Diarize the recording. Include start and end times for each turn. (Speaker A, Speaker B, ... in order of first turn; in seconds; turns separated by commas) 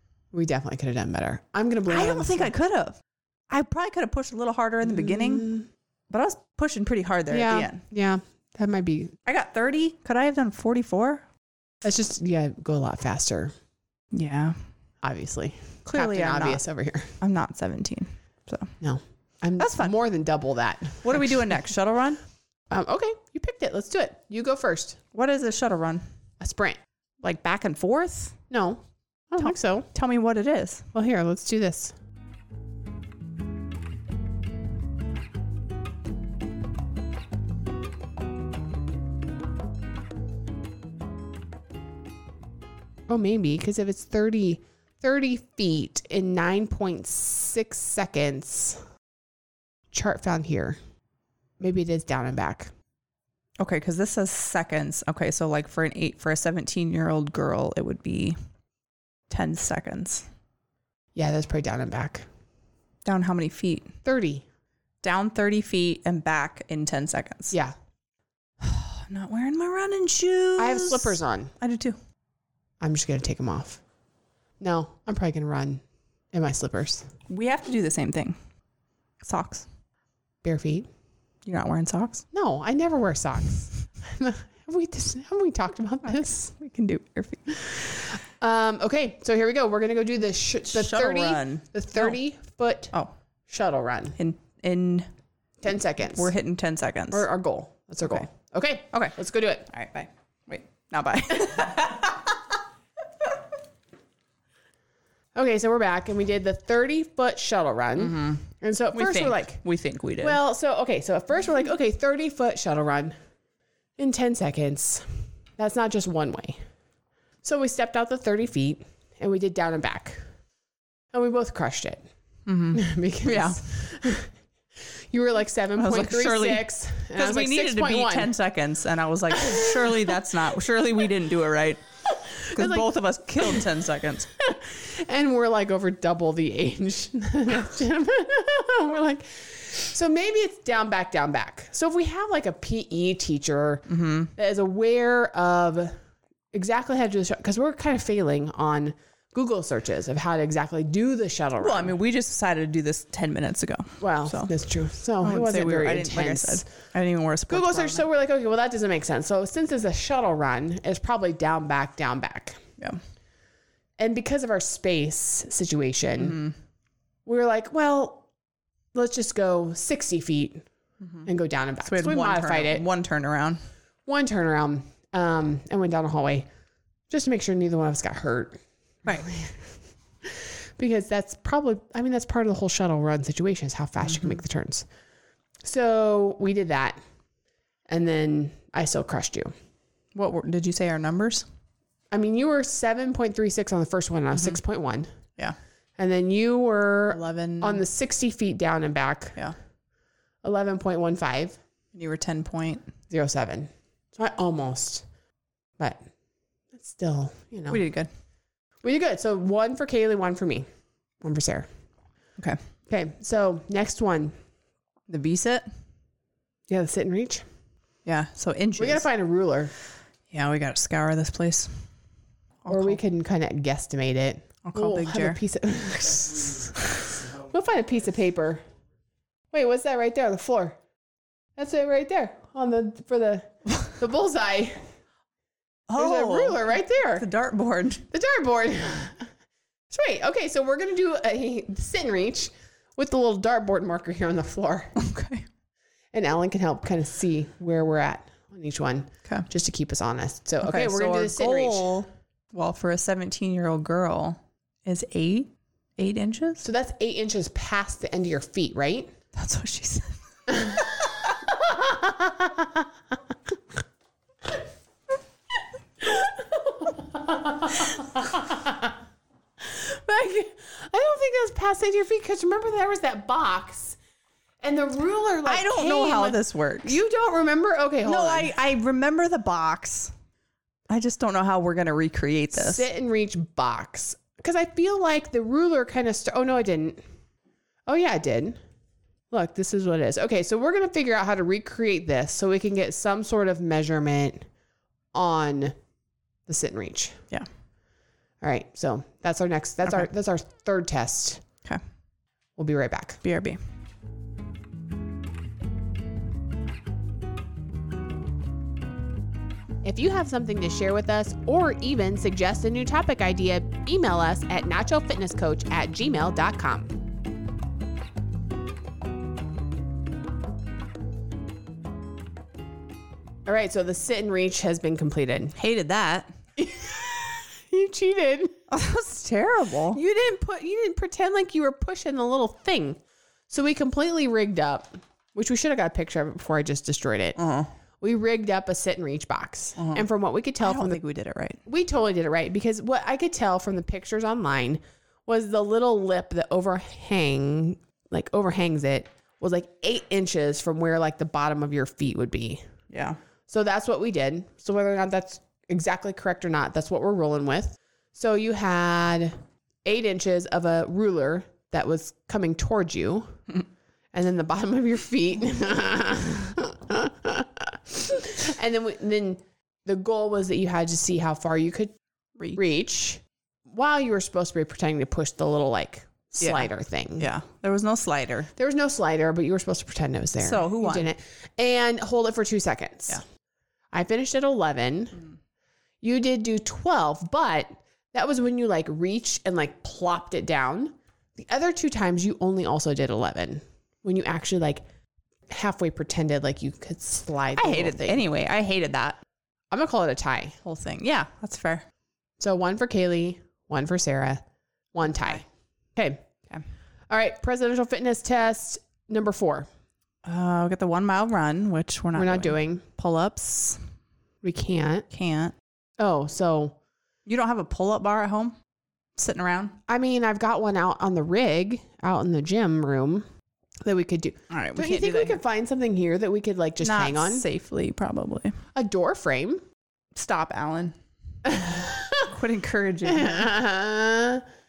Speaker A: 0.3-2.5, Speaker B: 1.9-3.0, Speaker B: 3.5-5.5, Speaker A: 4.8-5.7, Speaker B: 6.1-7.8, Speaker A: 7.3-9.1, Speaker B: 9.2-11.2, Speaker A: 11.8-13.5, Speaker B: 14.1-14.6, Speaker A: 15.0-17.1, Speaker B: 15.8-16.6, Speaker B: 17.2-18.7, Speaker A: 18.8-21.3, Speaker B: 19.6-19.9, Speaker B: 21.0-22.2, Speaker A: 22.7-25.0, Speaker B: 25.1-26.0, Speaker A: 26.4-26.8, Speaker B: 27.2-28.3, Speaker A: 28.4-29.9, Speaker B: 29.4-30.9, Speaker A: 30.9-31.9, Speaker A: 43.1-48.8, Speaker A: 49.9-50.8, Speaker A: 51.6-52.7, Speaker B: 53.6-58.4, Speaker B: 59.3-60.2, Speaker A: 61.1-62.2, Speaker B: 63.0-63.9, Speaker A: 64.0-64.4, Speaker B: 65.0-67.5, Speaker B: 68.6-72.0, Speaker A: 70.6-71.5, Speaker A: 72.8-73.8, Speaker A: 74.6-75.8, Speaker A: 76.3-77.1, Speaker B: 77.3-78.4, Speaker B: 79.2-79.6, Speaker A: 80.4-80.9, Speaker B: 81.5-82.2, Speaker A: 82.3-86.5, Speaker B: 86.1-87.4, Speaker A: 87.5-92.9, Speaker B: 90.7-92.2, Speaker A: 93.5-94.2, Speaker B: 94.2-95.1, Speaker A: 95.6-96.3, Speaker B: 96.1-97.2, Speaker A: 97.1-99.7, Speaker B: 99.7-102.4, Speaker A: 105.3-109.6, Speaker B: 108.0-110.4, Speaker A: 110.2-113.1, Speaker A: 114.0-116.6, Speaker A: 117.4-120.2, Speaker A: 121.1-122.0, Speaker B: 122.5-123.6, Speaker A: 122.7-124.3, Speaker A: 125.1-128.3, Speaker B: 125.8-131.8, Speaker A: 129.3-130.2, Speaker A: 132.3-132.9, Speaker B: 132.4-134.3, Speaker A: 133.4-133.7, Speaker A: 134.4-145.9, Speaker B: 143.9-144.3, Speaker A: 146.5-152.0, Speaker B: 151.6-154.5, Speaker A: 154.0-156.7, Speaker B: 155.2-158.1, Speaker A: 157.5-162.6, Speaker A: 164.0-166.4, Speaker B: 166.2-166.5, Speaker A: 167.2-168.2, Speaker A: 168.9-170.7, Speaker B: 171.0-171.3, Speaker A: 171.2-172.8, Speaker B: 171.8-173.6, Speaker A: 174.1-176.5, Speaker A: 177.1-179.6, Speaker A: 180.2-184.8, Speaker A: 185.6-187.0, Speaker A: 187.9-189.5, Speaker B: 190.2-191.4, Speaker A: 192.1-195.1, Speaker A: 196.0-199.4, Speaker B: 197.1-197.8, Speaker A: 200.4-201.6, Speaker B: 201.9-202.9, Speaker A: 203.1-205.0, Speaker A: 206.8-207.8, Speaker B: 207.7-208.1, Speaker A: 208.8-210.7, Speaker A: 211.2-211.7, Speaker A: 212.9-214.3, Speaker B: 215.1-215.7, Speaker A: 216.7-217.4, Speaker B: 218.1-219.0, Speaker A: 218.8-219.7, Speaker B: 220.3-221.8, Speaker B: 222.7-223.0, Speaker A: 222.7-228.6, Speaker B: 224.7-225.4, Speaker A: 229.5-230.8, Speaker A: 231.6-234.8, Speaker B: 235.9-238.0, Speaker A: 236.0-237.3, Speaker A: 238.1-239.3, Speaker A: 239.9-244.9, Speaker B: 245.0-245.4, Speaker A: 246.1-252.0, Speaker B: 250.6-256.6, Speaker A: 256.6-259.1, Speaker B: 259.3-260.8, Speaker A: 260.5-260.8, Speaker A: 261.5-262.7, Speaker A: 266.0-268.9, Speaker A: 269.6-274.0, Speaker A: 274.6-278.5, Speaker B: 275.5-277.0, Speaker B: 278.0-280.1, Speaker B: 280.9-282.9, Speaker A: 282.5-287.0, Speaker A: 287.9-288.6, Speaker A: 289.3-294.4, Speaker A: 295.1-295.8, Speaker A: 296.5-297.2, Speaker A: 298.4-301.4, Speaker A: 302.6-303.2, Speaker B: 303.2-303.6, Speaker A: 309.8-317.0, Speaker A: 323.5-325.5, Speaker B: 325.6-326.3, Speaker A: 326.6-328.6, Speaker B: 328.7-330.0, Speaker A: 329.9-333.0, Speaker A: 333.5-337.4, Speaker B: 337.4-337.7, Speaker A: 338.0-341.0, Speaker B: 339.8-340.1, Speaker B: 340.6-341.6, Speaker A: 341.7-352.6, Speaker B: 352.9-353.2, Speaker A: 353.5-363.4, Speaker A: 364.1-371.9, Speaker A: 372.5-377.3, Speaker B: 376.4-378.5, Speaker A: 378.5-383.2, Speaker B: 380.4-381.1, Speaker A: 383.9-385.2, Speaker A: 386.0-394.8, Speaker A: 395.5-398.2, Speaker B: 397.5-399.2, Speaker A: 399.7-400.6, Speaker B: 400.6-401.8, Speaker A: 402.4-404.4, Speaker A: 404.9-405.4, Speaker A: 406.0-406.2, Speaker A: 407.1-409.7, Speaker B: 410.2-413.8, Speaker A: 412.1-412.8, Speaker A: 414.4-415.1, Speaker B: 415.1-415.5, Speaker A: 416.0-416.8, Speaker B: 417.2-418.5, Speaker B: 419.2-419.8, Speaker A: 419.9-423.2, Speaker A: 423.8-427.4, Speaker B: 424.5-425.4, Speaker B: 426.8-428.5, Speaker A: 428.7-429.6, Speaker B: 430.1-431.0, Speaker A: 431.4-432.3, Speaker B: 432.2-433.5, Speaker A: 433.1-434.4